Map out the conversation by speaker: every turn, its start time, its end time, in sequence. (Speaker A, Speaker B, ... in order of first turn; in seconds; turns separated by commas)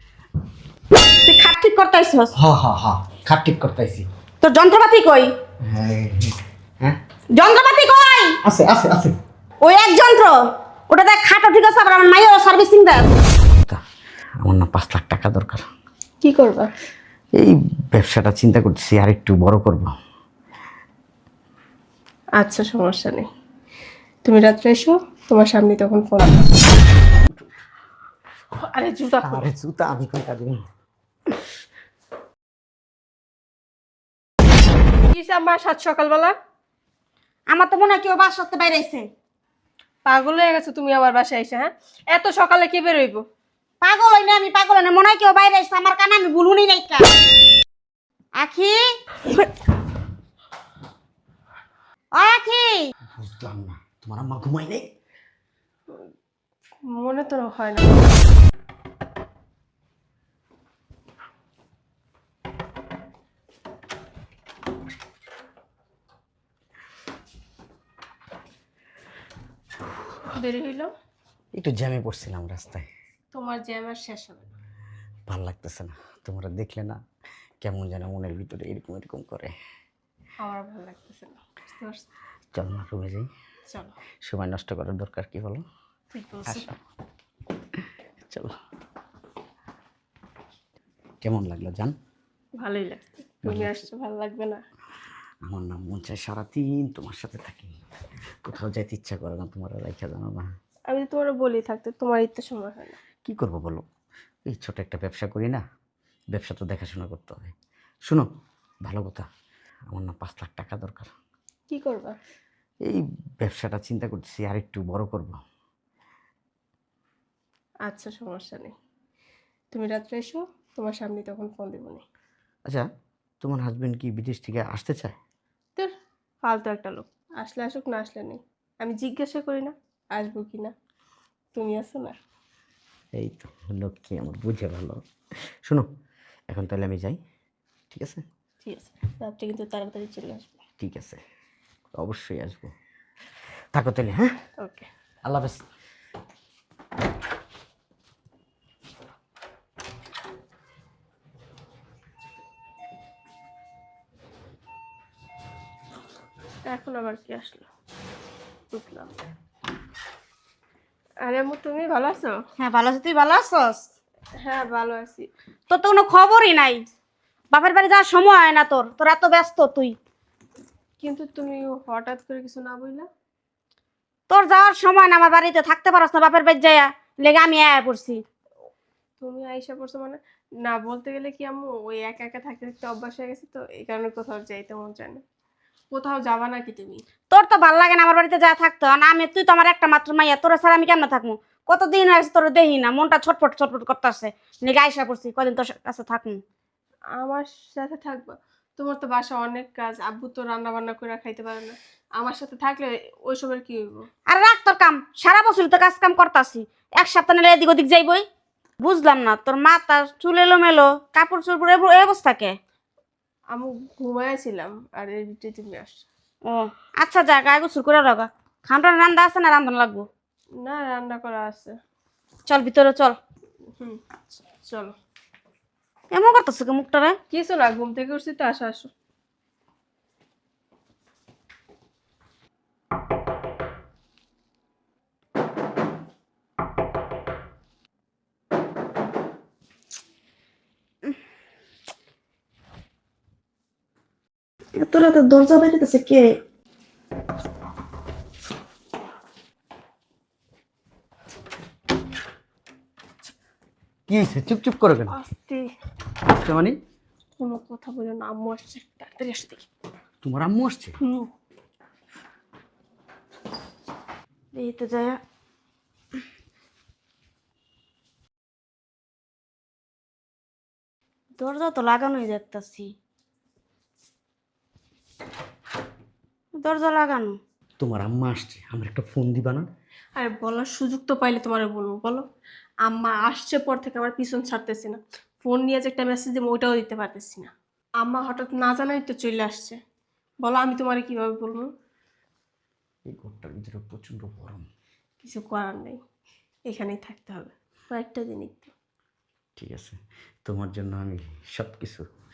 Speaker A: 1.3-2.3, Speaker B: 2.4-4.1, Speaker A: 4.4-5.3, Speaker B: 5.7-7.0, Speaker A: 7.3-8.4, Speaker B: 8.4-9.2, Speaker A: 9.6-10.4, Speaker A: 10.9-13.2, Speaker B: 14.4-15.7, Speaker C: 16.2-16.7, Speaker B: 17.4-19.9, Speaker C: 22.4-23.3, Speaker C: 24.2-26.4, Speaker C: 28.6-29.4, Speaker B: 29.2-30.6, Speaker C: 35.1-36.4, Speaker A: 37.5-39.1, Speaker C: 40.1-43.2, Speaker A: 43.8-47.1, Speaker A: 48.4-48.8, Speaker A: 52.2-52.9, Speaker B: 53.2-54.9, Speaker C: 56.9-58.0, Speaker C: 70.3-70.9, Speaker B: 71.6-72.9, Speaker C: 73.3-74.4, Speaker B: 75.3-77.0, Speaker B: 77.6-79.5, Speaker C: 80.4-82.1, Speaker B: 82.5-83.3, Speaker B: 84.3-85.7, Speaker C: 86.1-86.7, Speaker B: 86.5-86.7, Speaker B: 88.3-88.6, Speaker B: 91.2-92.0, Speaker C: 92.6-94.6, Speaker B: 93.5-93.8, Speaker B: 95.5-97.7, Speaker B: 98.4-100.5, Speaker C: 100.9-103.0, Speaker B: 103.2-103.8, Speaker B: 104.5-105.6, Speaker B: 106.3-107.5, Speaker B: 108.8-109.3, Speaker B: 109.9-111.1, Speaker C: 111.7-112.2, Speaker B: 112.9-115.4, Speaker C: 117.9-118.7, Speaker C: 119.7-122.0, Speaker B: 123.4-125.2, Speaker C: 126.5-130.7, Speaker C: 131.5-132.2, Speaker B: 133.2-135.9, Speaker B: 136.5-137.2, Speaker B: 137.9-138.2, Speaker C: 138.6-140.5, Speaker B: 140.8-141.2, Speaker B: 141.9-142.7, Speaker B: 143.7-144.3, Speaker C: 144.6-144.9, Speaker B: 145.2-145.6, Speaker C: 156.7-157.7, Speaker C: 158.7-159.1, Speaker C: 161.2-162.4, Speaker A: 162.6-163.9, Speaker C: 164.4-165.3, Speaker A: 165.7-166.8, Speaker A: 167.5-170.0, Speaker C: 171.0-173.1, Speaker A: 174.3-178.2, Speaker C: 179.2-185.2, Speaker C: 185.9-187.0, Speaker A: 187.3-196.4, Speaker C: 197.2-204.1, Speaker A: 204.3-208.3, Speaker A: 208.8-212.6, Speaker C: 213.5-216.0, Speaker A: 216.4-220.1, Speaker C: 220.6-221.8, Speaker A: 222.5-223.2, Speaker C: 223.8-224.0, Speaker C: 224.6-225.0, Speaker A: 226.1-227.2, Speaker C: 227.3-228.9, Speaker A: 244.8-246.4, Speaker B: 254.1-255.2, Speaker C: 255.1-255.7, Speaker B: 256.4-256.8, Speaker C: 257.4-259.7, Speaker B: 260.2-261.0, Speaker C: 261.0-261.3, Speaker A: 264.6-265.2, Speaker A: 271.4-272.9, Speaker A: 276.6-277.4, Speaker B: 277.8-279.7, Speaker C: 280.1-282.3, Speaker C: 282.9-287.5, Speaker C: 288.0-289.8, Speaker C: 290.4-291.7, Speaker B: 293.1-294.7, Speaker C: 295.2-296.0, Speaker C: 296.7-298.7, Speaker B: 299.6-302.1